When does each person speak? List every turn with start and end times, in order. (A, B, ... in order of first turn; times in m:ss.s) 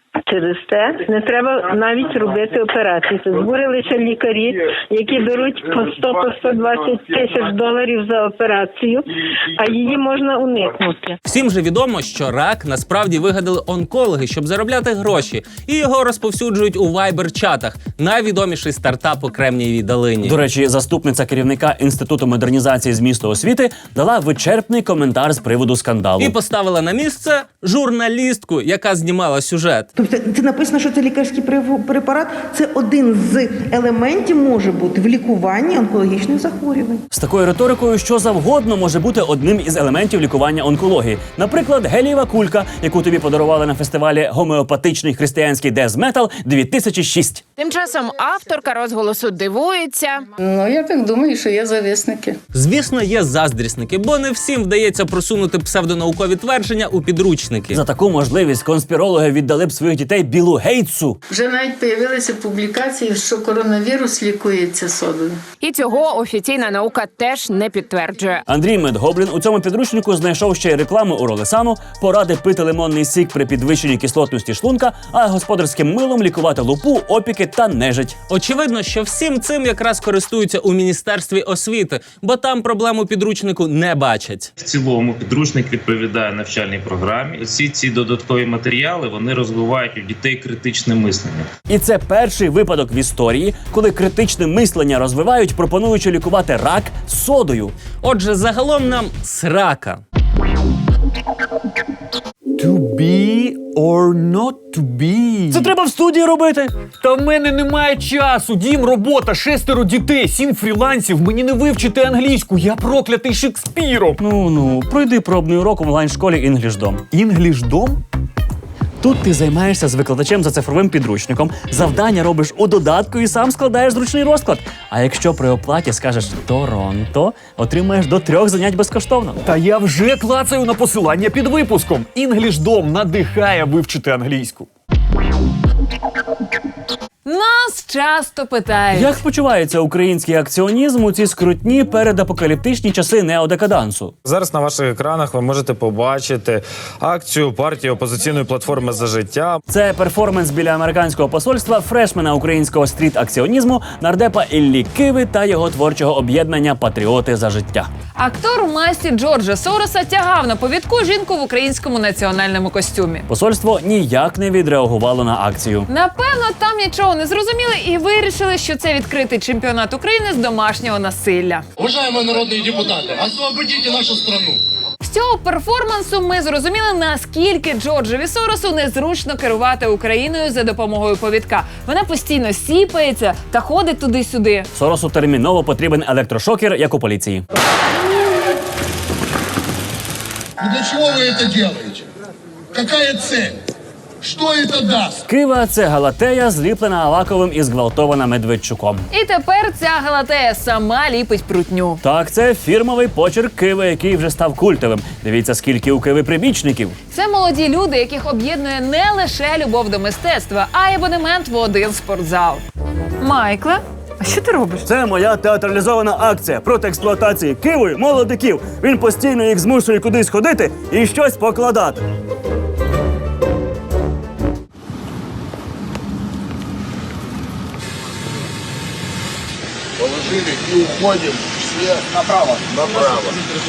0:00.3-0:11.2 A
0:11.3-0:20.4 B
0:20.2-0:26.3 C
0:26.2-0:29.9 B
0:30.0-0:37.0 D
0:37.1-0:47.4 C
0:47.6-0:50.3 E
0:50.4-0:52.4 F
0:52.5-0:57.8 B
0:57.7-1:01.2 C
1:01.3-1:05.4 F
1:05.6-1:08.4 E
1:08.5-1:18.2 C
1:18.3-1:24.5 B
1:24.6-1:31.5 G
1:31.7-1:37.8 C
1:38.0-1:40.0 B
1:42.6-1:45.7 H
1:45.5-1:46.7 C
1:47.0-1:54.2 H
1:54.2-1:57.0 C
1:57.1-1:58.0 H
1:59.0-2:09.4 C
2:09.4-2:14.7 H
2:17.2-2:19.2 I
2:18.9-2:24.2 C
2:24.2-2:29.6 J
2:29.7-2:37.9 C
2:38.2-2:43.3 I
2:43.3-2:45.9 C
2:45.9-2:51.7 I
2:55.0-3:04.7 I
3:04.8-3:07.4 C
3:10.6-3:12.1 K
3:12.7-3:13.6 K
3:14.2-3:15.2 K
3:15.3-3:19.0 C
3:19.1-3:22.0 I
3:22.0-3:27.0 C
3:27.1-3:32.6 I
3:33.2-3:34.9 I
3:34.8-3:42.0 C
3:50.0-3:53.4 K